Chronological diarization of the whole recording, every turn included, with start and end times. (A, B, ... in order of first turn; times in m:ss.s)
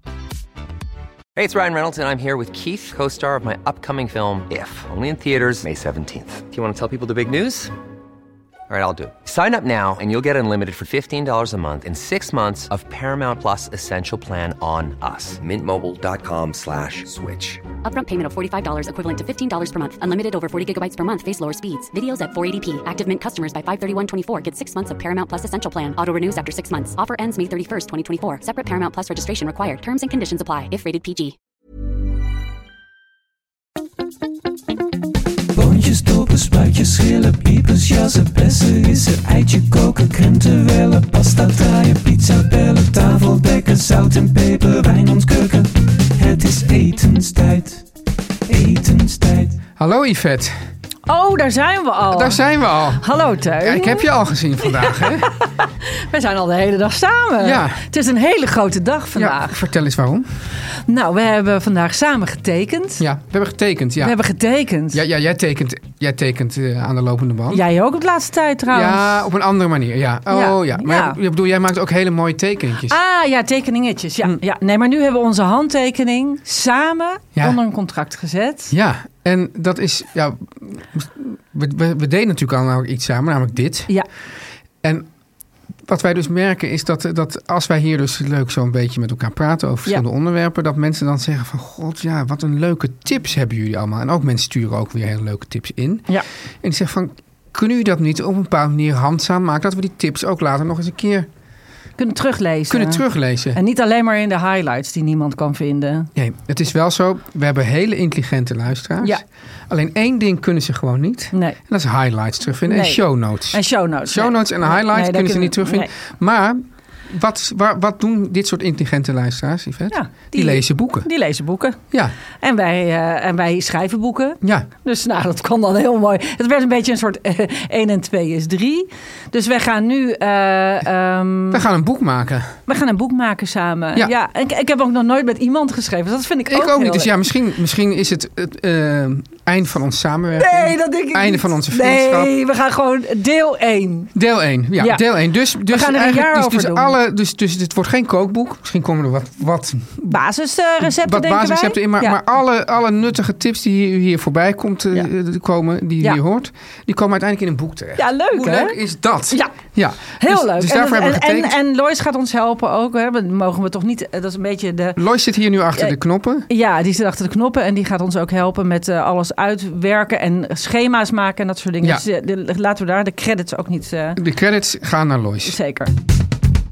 0:01.3-0:07.7 A
0:08.7-0:17.6 A
0:17.8-0:31.3 B
0:35.5-0:47.8 C
0:48.5-0:49.6 C
0:49.8-0:50.5 D
0:51.1-0:54.1 E
0:52.1-0:53.0 D
0:53.6-0:55.3 D
0:54.7-0:59.6 E
0:57.4-0:57.8 D
0:59.1-1:00.2 D
1:00.8-1:03.0 E
1:03.0-1:04.2 D
1:04.0-1:05.0 E
1:04.9-1:07.6 D
1:07.5-1:09.2 E
1:08.7-1:13.0 D
1:10.3-1:11.2 E
1:12.9-1:18.7 E
1:18.7-1:23.9 D
1:24.8-1:25.1 D
1:25.9-1:36.1 D
1:36.6-1:41.3 D
1:42.0-1:46.1 E
1:42.7-1:43.6 D
1:46.1-2:01.1 D
1:52.7-1:55.9 E
1:59.9-2:01.8 E
2:02.4-2:11.6 E
2:04.4-2:04.7 D
2:11.5-2:12.6 D
2:12.7-2:17.1 E
2:16.5-2:22.3 D
2:20.3-2:24.1 E
2:24.1-2:30.2 D
2:24.8-2:25.0 E
2:25.6-2:27.0 E
2:30.1-2:32.2 E
2:30.8-2:41.5 D
2:38.0-2:38.8 E
2:39.3-2:39.5 E
2:40.2-2:45.0 E
2:45.0-2:46.5 D
2:46.5-2:54.2 E
2:54.2-2:55.6 D
2:55.4-2:55.9 E